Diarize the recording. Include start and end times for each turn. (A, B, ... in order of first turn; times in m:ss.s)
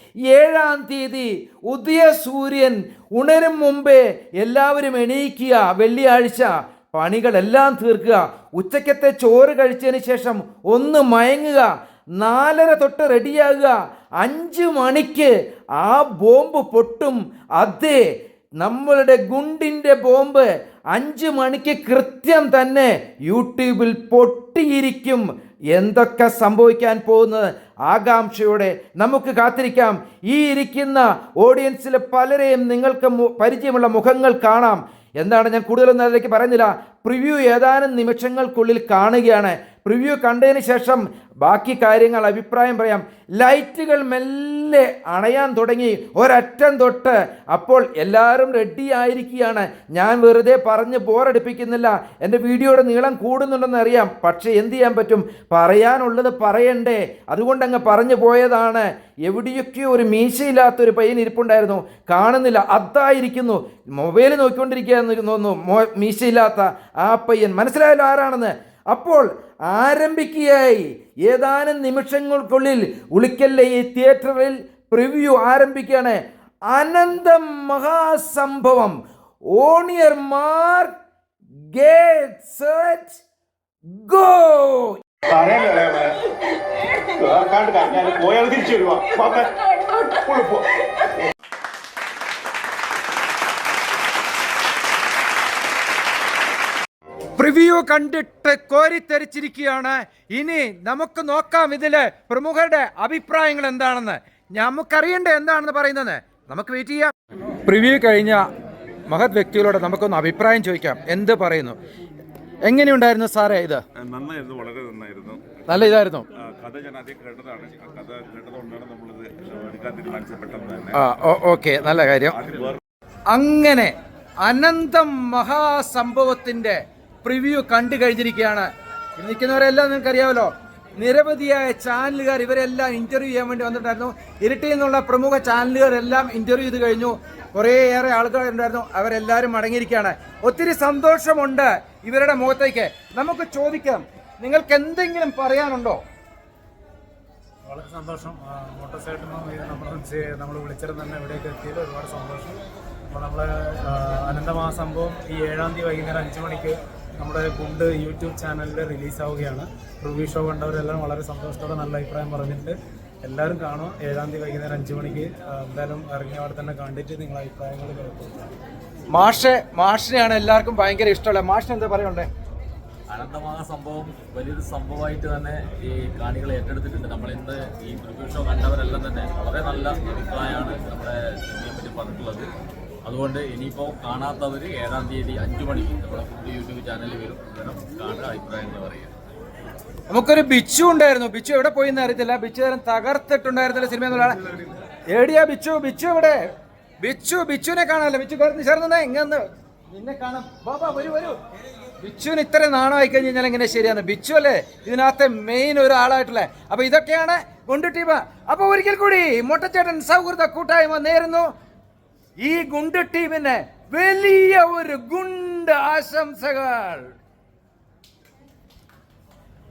0:00.3-0:18.0 A
0:18.6-1:16.2 A
1:16.7-1:19.0 A
1:19.6-1:20.9 A
1:21.7-1:23.2 A
1:23.9-1:25.0 A
1:25.5-1:26.0 B
1:27.4-1:29.4 C
1:27.4-1:29.0 B
1:30.1-1:30.6 C
1:37.4-1:47.1 A
1:47.6-1:48.5 A
1:49.1-1:51.8 A
1:52.6-1:53.8 A
1:54.0-1:55.6 B
1:55.7-1:56.2 A
1:56.4-2:00.9 B
2:00.9-2:02.4 A
2:03.3-2:26.0 A
2:27.7-2:32.6 D
2:33.1-2:48.5 D
2:49.1-2:52.3 A
2:53.1-3:02.5 E
3:03.0-3:09.1 E
3:10.1-3:14.4 A
3:15.1-3:16.4 A
3:17.0-3:21.4 A
3:22.0-3:31.5 A
3:32.4-3:37.1 A